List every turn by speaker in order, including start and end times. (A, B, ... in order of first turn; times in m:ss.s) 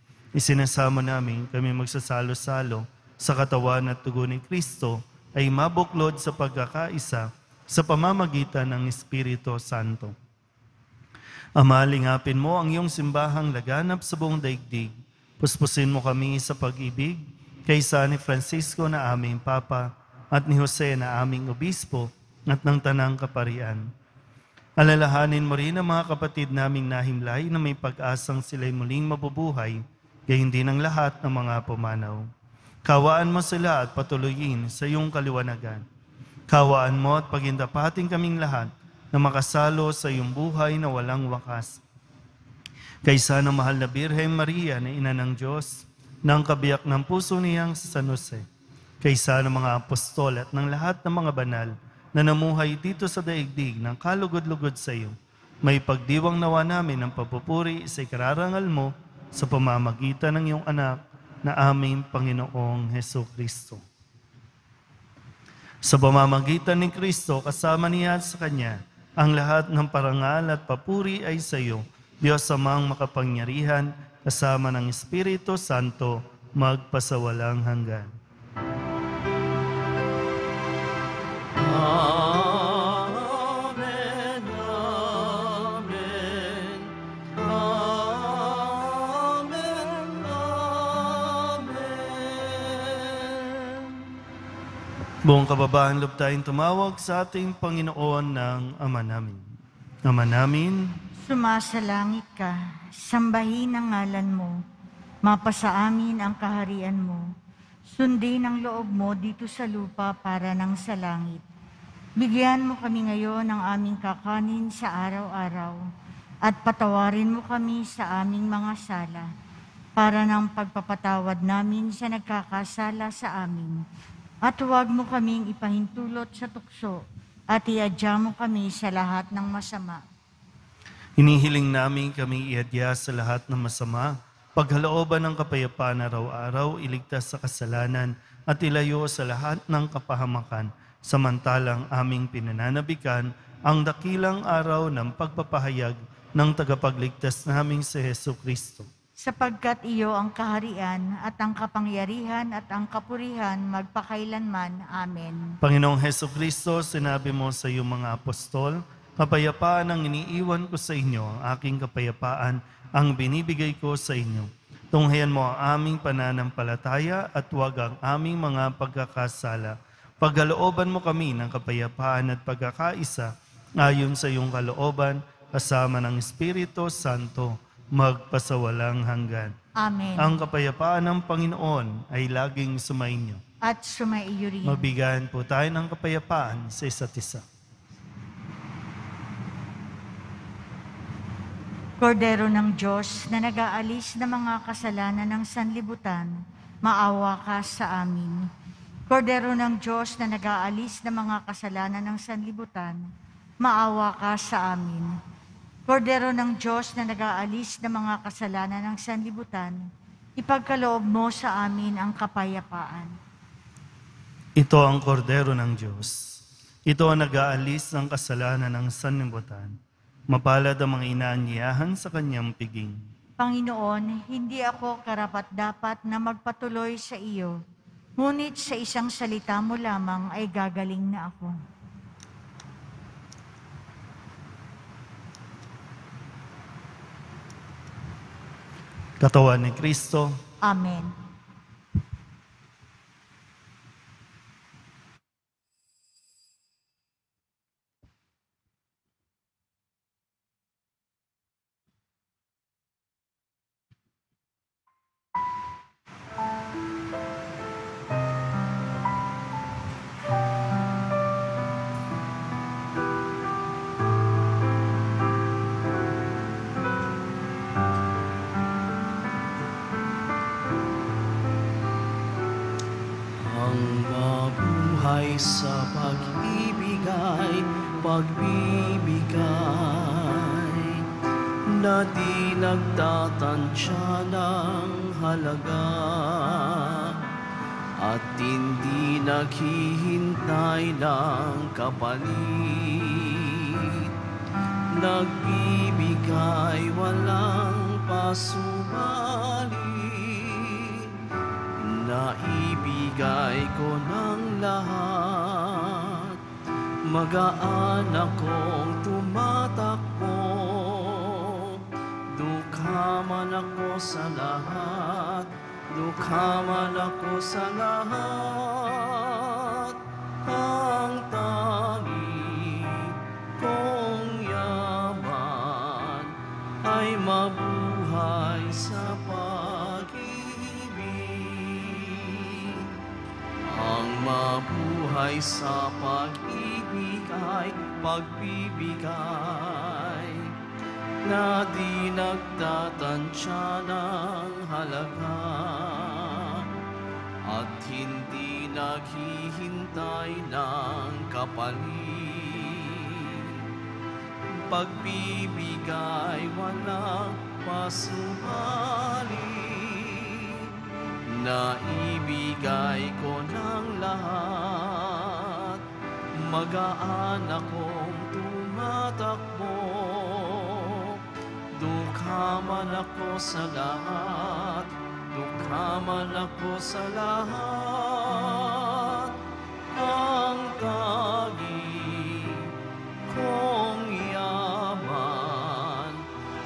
0:00.4-0:10.2 A
0:11.6-0:23.8 A
0:24.8-0:32.3 A
0:32.9-0:35.8 A
0:36.5-0:41.8 A
0:43.0-0:48.4 A
0:49.0-1:03.8 A
1:05.8-1:18.1 A
1:21.6-1:34.1 B
1:35.2-1:39.4 A
1:40.1-1:40.9 A
1:41.2-1:44.6 C
1:45.2-1:47.3 C
1:47.9-1:51.4 C
1:52.2-1:55.8 C
1:56.4-1:59.3 C
2:00.0-2:03.8 C
2:04.4-2:10.0 C
2:11.2-2:28.9 A
2:29.2-2:35.6 C
2:35.6-2:59.6 A
2:59.8-3:00.4 C
3:00.2-3:03.4 A
3:03.6-3:04.9 C
3:04.6-3:07.4 A
3:12.0-3:18.5 C
3:19.1-3:23.1 C
3:23.6-3:25.2 C
3:25.9-3:29.9 C
3:30.4-3:33.2 C
3:34.6-3:39.8 A
3:40.3-3:43.0 A
3:43.4-3:47.6 C
3:48.2-3:51.5 C
3:59.2-4:00.4 A
4:00.6-4:01.2 C
4:33.4-4:41.1 B
4:41.7-4:47.3 B
4:48.0-4:54.1 B
4:54.9-5:01.2 B
5:01.8-5:06.4 B
5:07.1-5:33.0 B
5:33.6-5:40.5 B
5:41.2-5:46.7 B
5:47.4-5:53.7 B
5:54.7-6:05.8 B
6:06.4-6:11.2 B
6:11.7-6:19.4 B
6:19.9-6:22.7 B
6:23.3-6:26.2 B